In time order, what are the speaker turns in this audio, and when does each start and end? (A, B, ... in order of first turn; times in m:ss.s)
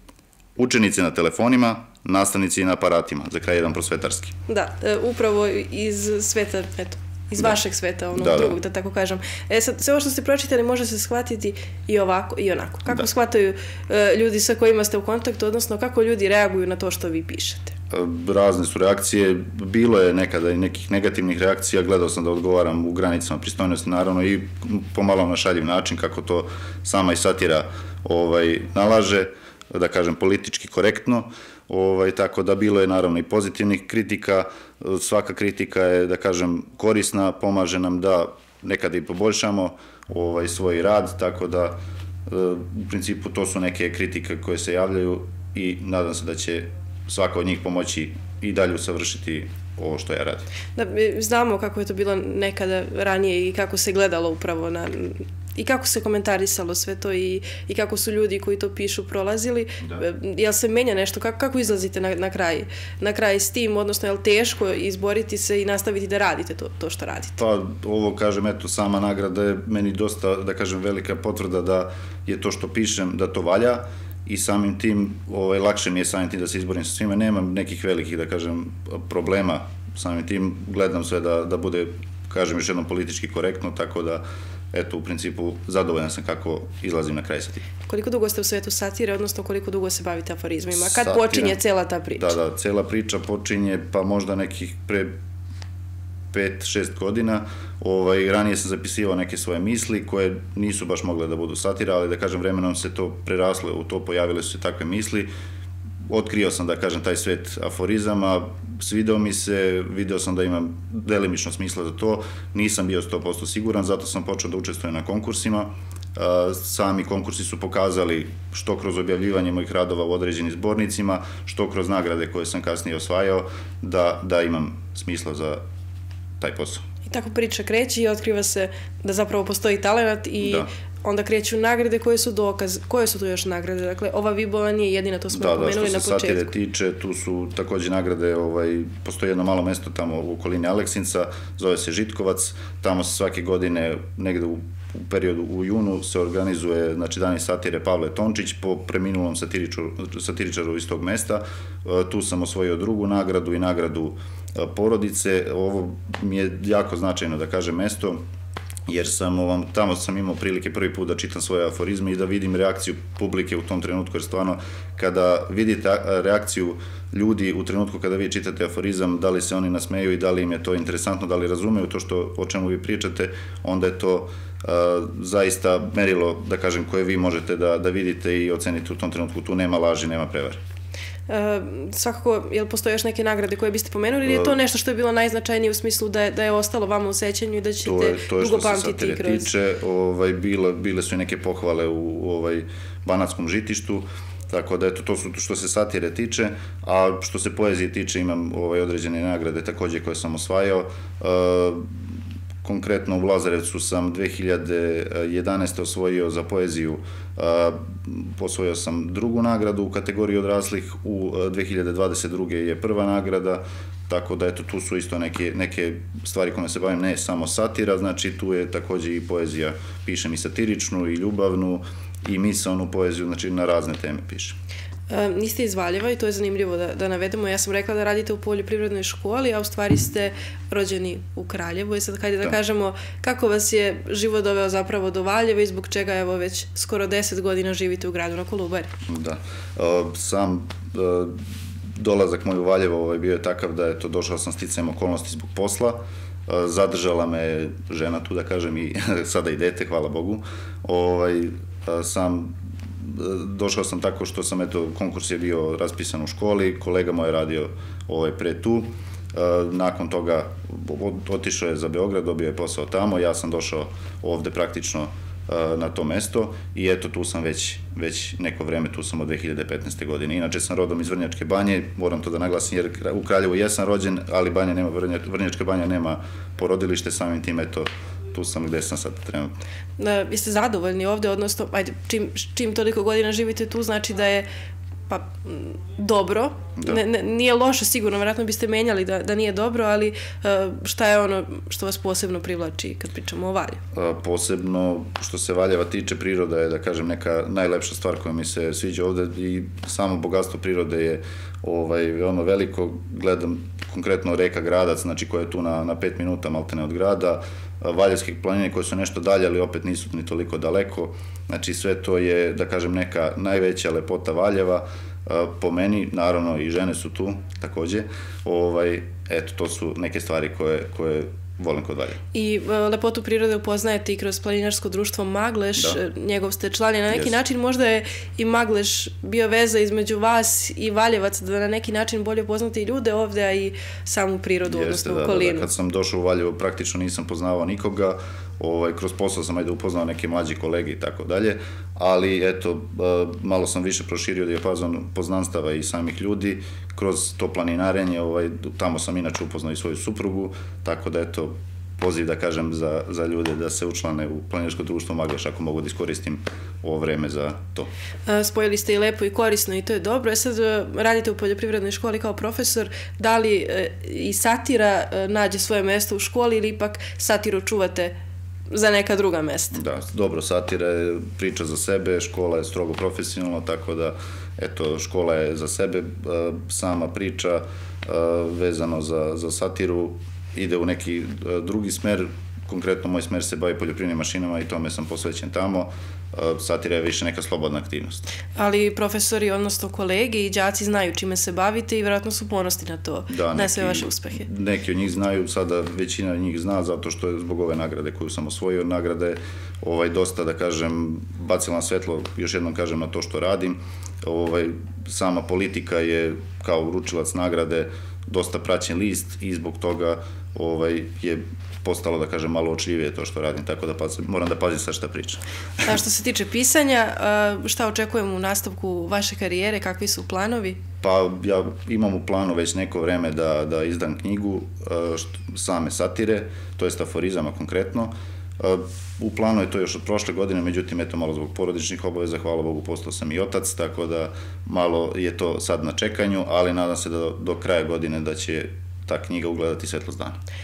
0:00.6-0:04.4 A
0:04.5-0:17.8 B
0:08.2-0:08.6 A
0:17.9-0:50.5 A
0:50.8-1:07.4 B
1:07.4-1:27.6 A
1:27.8-1:32.4 B
1:30.7-1:31.6 A
1:32.2-1:35.2 A
1:36.3-1:45.3 A
1:46.1-2:05.6 A
2:06.4-2:06.8 A
2:07.1-2:16.5 B
2:10.4-2:10.7 A
2:15.3-2:38.2 A
2:38.9-3:00.6 A
3:01.3-3:09.5 B
3:04.3-3:04.6 A
3:07.8-3:21.9 A
3:22.6-3:44.6 A
3:45.1-3:58.9 B
3:59.1-4:01.4 A
4:02.0-4:39.5 A
4:40.0-4:44.5 B
4:45.1-4:53.8 B
4:53.9-5:22.2 A
5:22.3-5:35.7 B
5:27.1-5:27.4 A
5:34.7-5:57.9 A
5:58.3-6:08.1 B
6:08.7-6:09.8 B
6:09.7-6:28.3 A
6:28.6-6:34.5 B
6:33.3-6:55.4 A
6:55.8-7:00.8 B
7:01.0-7:20.4 A